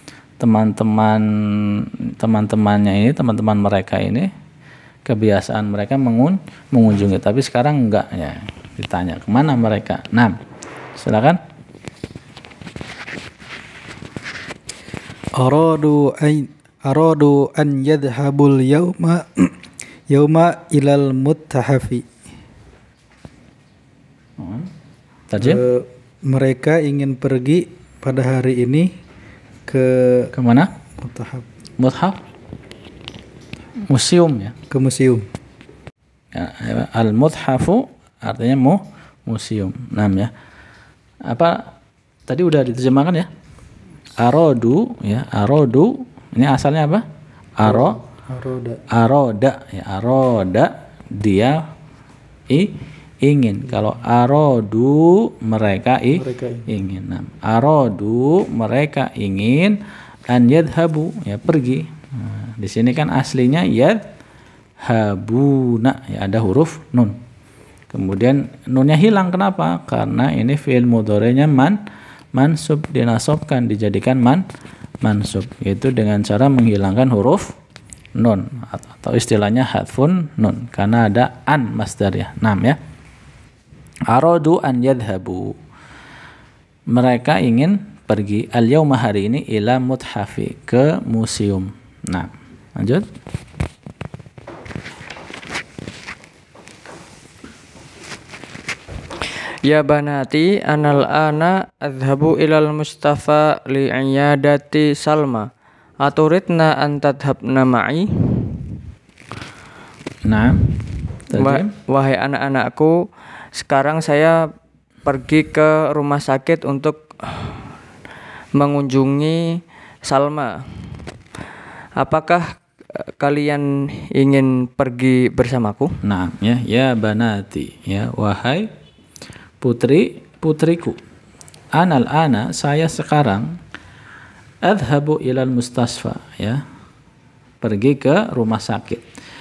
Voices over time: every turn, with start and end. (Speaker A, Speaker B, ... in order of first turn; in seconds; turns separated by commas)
Speaker A: 0.4-4.3, Speaker A: 5.1-10.4, Speaker A: 11.0-11.4, Speaker B: 15.4-22.1, Speaker A: 24.4-24.7, Speaker A: 25.3-25.6, Speaker B: 25.4-28.9, Speaker B: 29.7-30.3, Speaker A: 30.3-30.7, Speaker B: 31.0-31.5, Speaker A: 31.8-32.2, Speaker A: 33.9-34.5, Speaker B: 34.7-35.2, Speaker A: 36.3-40.3, Speaker A: 41.2-41.7, Speaker A: 42.3-43.3, Speaker A: 44.2-47.0, Speaker A: 47.6-48.0, Speaker B: 47.6-48.8, Speaker A: 48.9-51.6, Speaker A: 52.5-64.0, Speaker B: 56.1-56.7, Speaker A: 64.8-67.2, Speaker A: 67.9-71.8, Speaker A: 72.3-74.4, Speaker A: 75.0-77.5, Speaker A: 78.2-82.8, Speaker A: 84.1-85.5, Speaker A: 86.9-93.0, Speaker C: 99.6-105.5, Speaker C: 106.0-108.7, Speaker A: 110.2-110.7, Speaker A: 111.3-111.7, Speaker C: 111.4-114.5, Speaker C: 115.0-117.6, Speaker C: 118.5-120.9, Speaker C: 122.0-126.0, Speaker A: 126.0-128.7, Speaker A: 129.6-131.0, Speaker A: 131.7-133.5, Speaker A: 134.6-136.6, Speaker A: 137.6-139.0